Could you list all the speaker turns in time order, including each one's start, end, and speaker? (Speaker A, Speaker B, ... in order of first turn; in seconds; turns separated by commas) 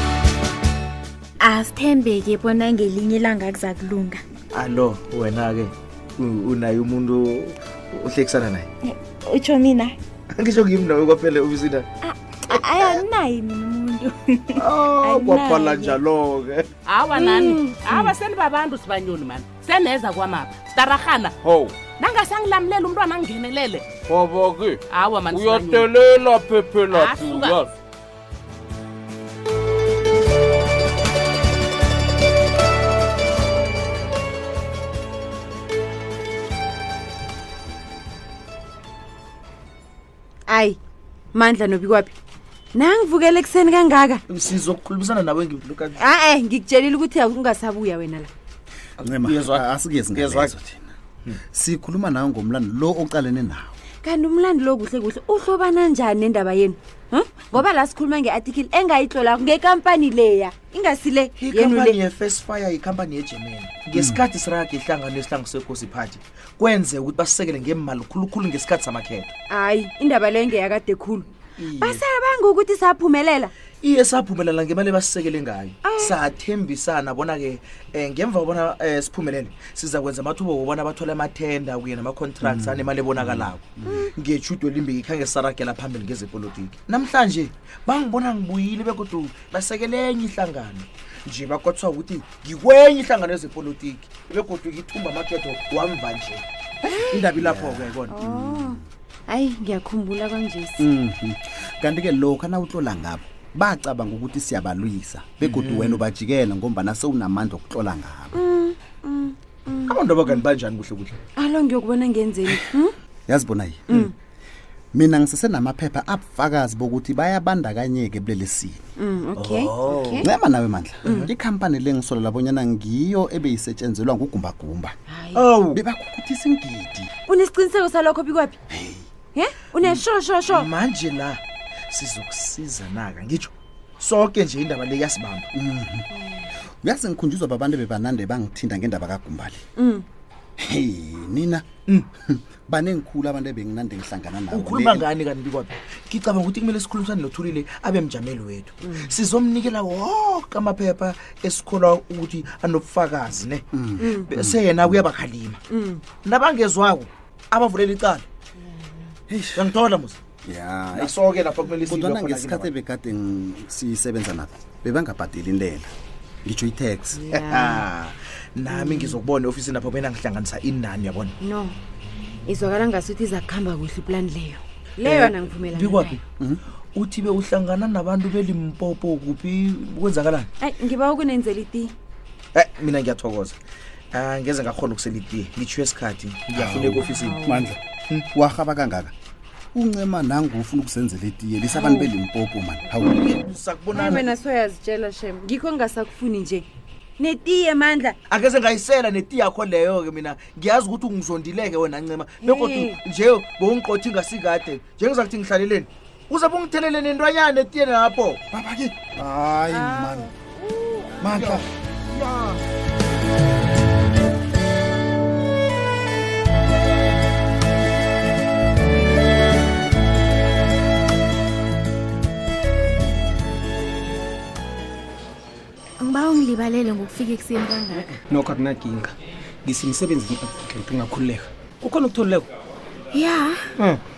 Speaker A: 1.4-4.2, Speaker B: 4.5-8.7, Speaker A: 8.8-10.0, Speaker B: 10.3-11.9, Speaker A: 12.0-16.0, Speaker B: 12.5-13.0, Speaker B: 14.6-16.7, Speaker C: 16.8-21.3, Speaker A: 17.2-18.1, Speaker D: 21.4-21.8, Speaker C: 21.9-23.9, Speaker D: 24.1-27.7, Speaker C: 24.9-25.9, Speaker C: 26.9-27.6, Speaker E: 40.5-40.8, Speaker E: 41.3-42.1, Speaker E: 42.7-44.2, Speaker B: 44.3-46.0, Speaker E: 46.0-48.3, Speaker B: 49.0-50.5, Speaker F: 49.0-50.9, Speaker F: 51.5-53.7, Speaker E: 54.0-62.0, Speaker B: 61.4-69.3, Speaker E: 69.5-73.5, Speaker B: 71.6-72.0, Speaker B: 73.8-83.6, Speaker E: 75.8-76.1, Speaker F: 82.4-84.1, Speaker E: 83.8-84.1, Speaker B: 84.1-98.2, Speaker F: 97.1-98.8, Speaker E: 98.1-100.8, Speaker F: 100.8-108.4, Speaker B: 105.4-106.0, Speaker E: 108.3-109.9, Speaker B: 109.8-111.1, Speaker E: 111.3-112.9, Speaker F: 113.3-114.1, Speaker F: 114.9-118.8, Speaker E: 119.0-120.2, Speaker B: 119.3-120.3, Speaker F: 120.2-124.9, Speaker E: 121.0-121.3, Speaker E: 125.1-125.4, Speaker B: 125.3-125.8, Speaker F: 125.7-127.1, Speaker E: 127.2-128.6, Speaker F: 128.7-129.0, Speaker E: 129.3-130.7, Speaker B: 130.5-135.5, Speaker F: 135.5-136.1, Speaker E: 136.1-136.5, Speaker F: 136.8-139.6, Speaker E: 139.8-140.0, Speaker F: 140.6-141.7, Speaker F: 142.2-145.1, Speaker B: 144.5-155.6, Speaker F: 153.7-155.0, Speaker E: 154.0-154.2, Speaker E: 155.7-156.0, Speaker B: 156.2-158.2, Speaker E: 158.6-159.0, Speaker F: 159.3-159.7, Speaker B: 159.6-160.2, Speaker F: 160.4-161.2, Speaker B: 160.9-162.7, Speaker F: 161.9-165.9, Speaker F: 166.4-168.1, Speaker E: 167.1-167.8, Speaker B: 168.5-171.3, Speaker E: 171.4-171.8, Speaker E: 172.4-176.2, Speaker B: 175.0-176.2, Speaker B: 176.9-180.5, Speaker E: 180.6-181.9, Speaker B: 182.5-183.6, Speaker B: 184.1-187.4, Speaker F: 186.5-187.8, Speaker E: 187.0-187.7, Speaker F: 188.3-189.1, Speaker F: 189.7-193.2, Speaker E: 191.7-192.1, Speaker B: 193.1-194.3, Speaker E: 193.9-196.7, Speaker F: 193.9-194.2, Speaker E: 197.2-198.2, Speaker B: 198.3-208.4, Speaker E: 202.4-203.0, Speaker F: 208.5-210.3, Speaker E: 209.7-211.1, Speaker F: 211.2-211.7, Speaker B: 211.2-211.7, Speaker A: 226.0-228.2, Speaker G: 228.2-232.5, Speaker A: 233.1-233.7